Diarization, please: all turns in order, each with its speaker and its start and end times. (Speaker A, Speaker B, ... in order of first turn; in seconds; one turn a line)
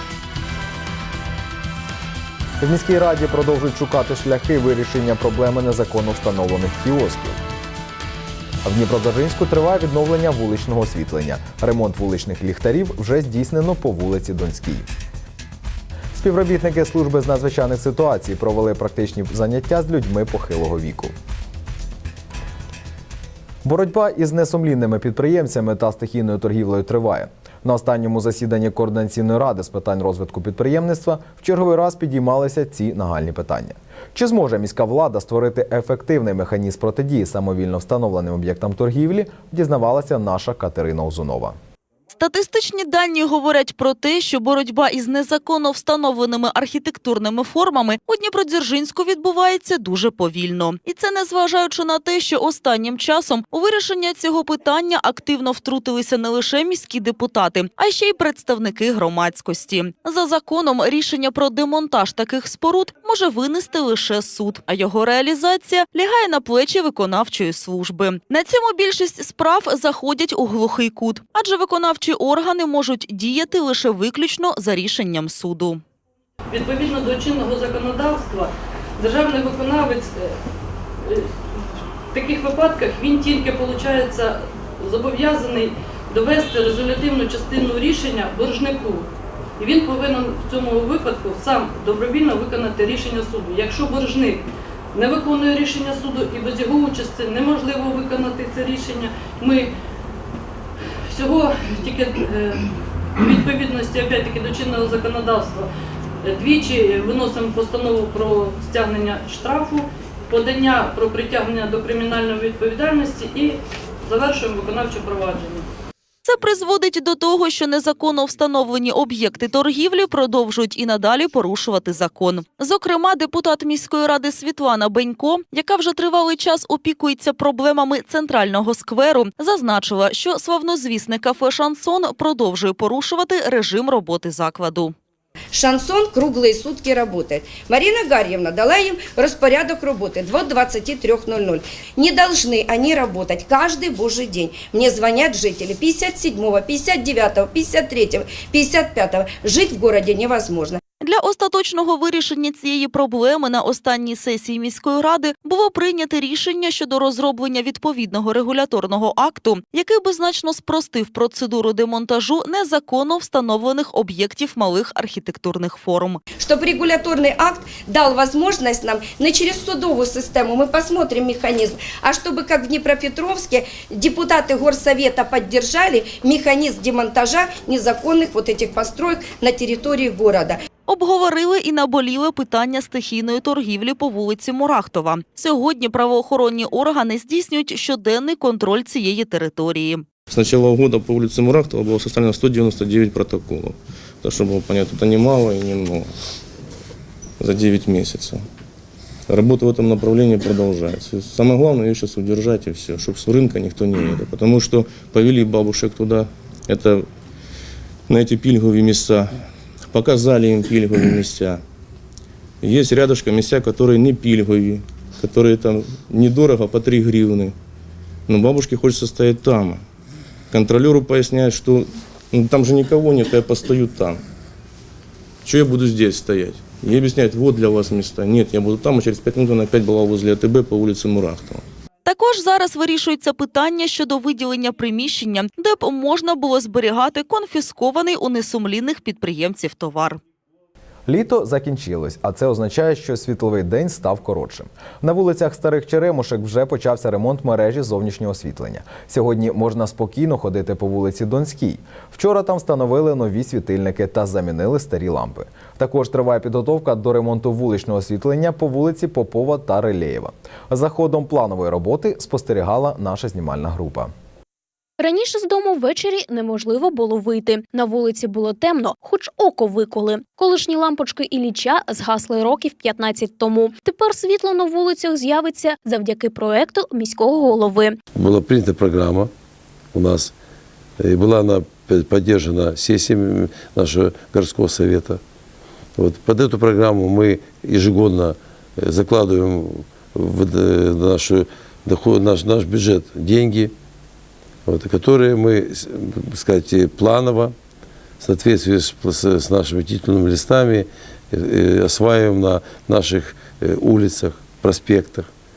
Speaker A: 2.6-7.4
Speaker A: 8.6-14.8
Speaker A: 16.1-21.1
Speaker A: 23.6-41.5
Speaker B: 42.1-75.8
Speaker C: 76.5-80.4
Speaker C: 81.0-99.8
Speaker C: 101.1-102.7
Speaker C: 103.2-115.7
Speaker B: 116.2-134.9
Speaker D: 135.5-150.8
Speaker B: 151.0-166.2
Speaker D: 166.4-180.6
Speaker B: 180.9-190.1
Speaker E: 190.3-196.1
Speaker E: 197.4-198.4
Speaker E: 199.3-207.1
Speaker E: 208.1-211.6
Speaker E: 212.6-217.5
Speaker E: 218.3-219.8
Speaker E: 220.5-224.2
Speaker E: 225.4-231.6
Speaker B: 232.1-240.2
Speaker A: 241.1-264.1
Speaker F: 265.0-277.9
Speaker G: 278.1-279.3
Speaker G: 279.9-280.3
Speaker G: 281.0-285.2
Speaker G: 286.0-293.7
Speaker G: 294.6-297.5
Speaker G: 298.2-305.3